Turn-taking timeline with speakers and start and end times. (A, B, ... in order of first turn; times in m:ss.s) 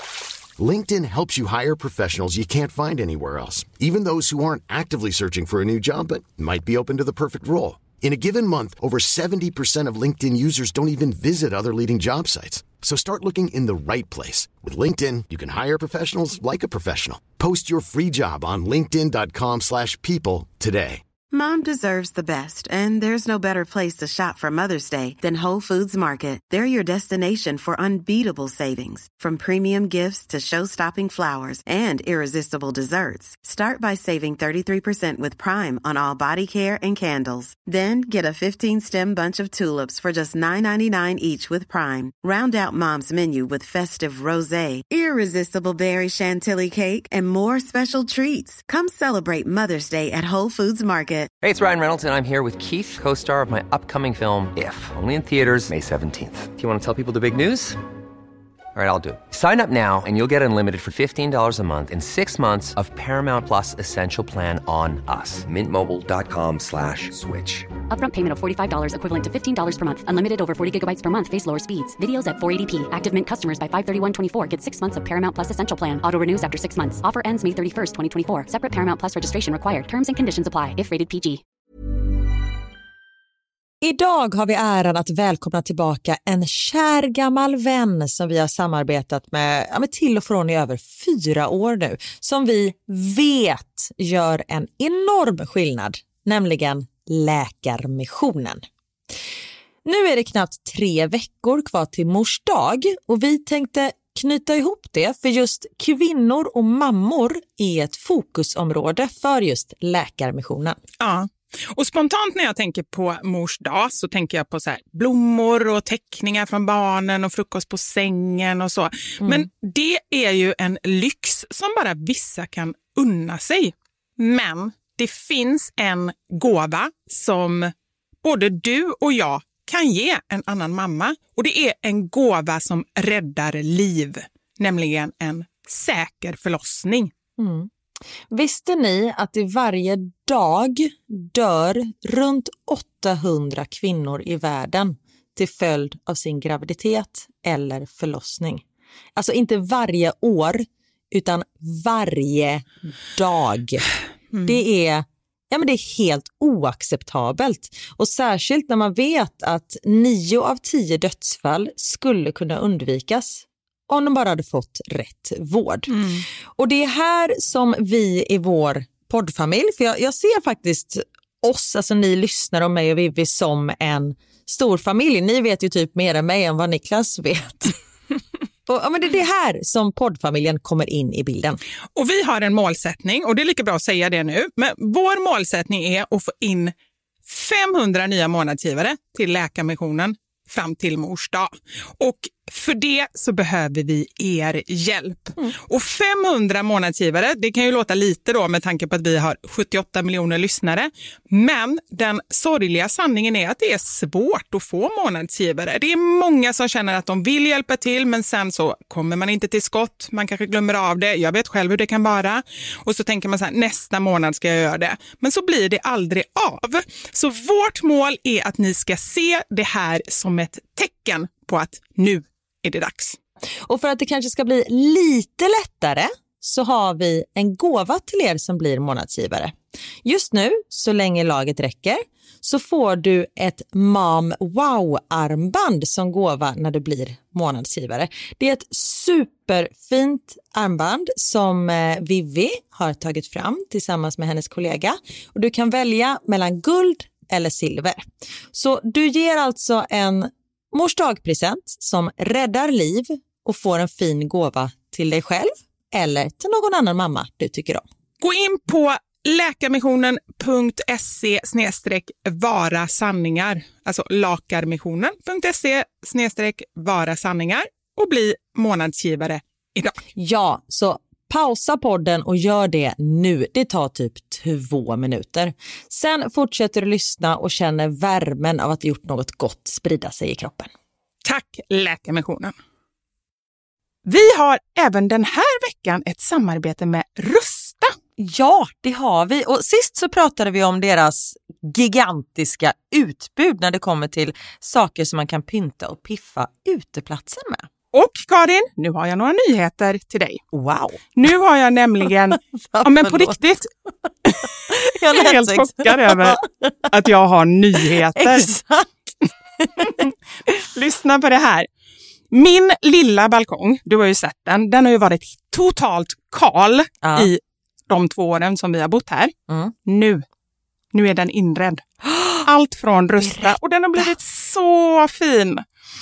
0:00.6-0:21.0 A
0:21.3-0:51.3 B
0:51.4-0:57.8 C
0:58.8-1:07.7 C
1:07.9-1:21.4 D
1:23.8-1:38.6 E
1:39.8-1:50.8 E
1:51.0-2:07.7 F
1:59.2-1:59.5 E
2:08.2-2:17.1 F
2:17.4-2:17.7 E
2:18.3-2:28.6 E
2:29.2-2:33.8 E
2:34.4-2:46.0 E
2:45.9-2:46.2 F
2:46.6-2:57.7 E
2:58.7-3:01.6 E
3:02.0-3:06.7 F
3:07.3-3:43.2 F
3:43.6-4:17.8 E
4:18.2-4:30.0 F
4:30.2-4:40.7 E
4:41.2-4:42.5 F
4:44.0-4:48.0 F
4:48.2-4:57.7 E
4:57.9-5:00.4 F
5:00.5-5:01.0 E
5:01.2-5:03.7 F
5:02.5-5:03.4 E
5:04.3-5:06.4 F
5:04.4-5:06.9 E
5:06.9-5:08.5 F
5:07.8-5:08.9 E
5:09.6-5:09.9 E
5:09.8-5:11.7 F
5:12.3-5:19.3 F
5:17.0-5:17.3 E
5:19.9-5:20.2 F
5:20.9-5:21.8 F
5:22.1-5:22.4 E
5:22.4-5:25.6 F
5:23.2-5:23.5 E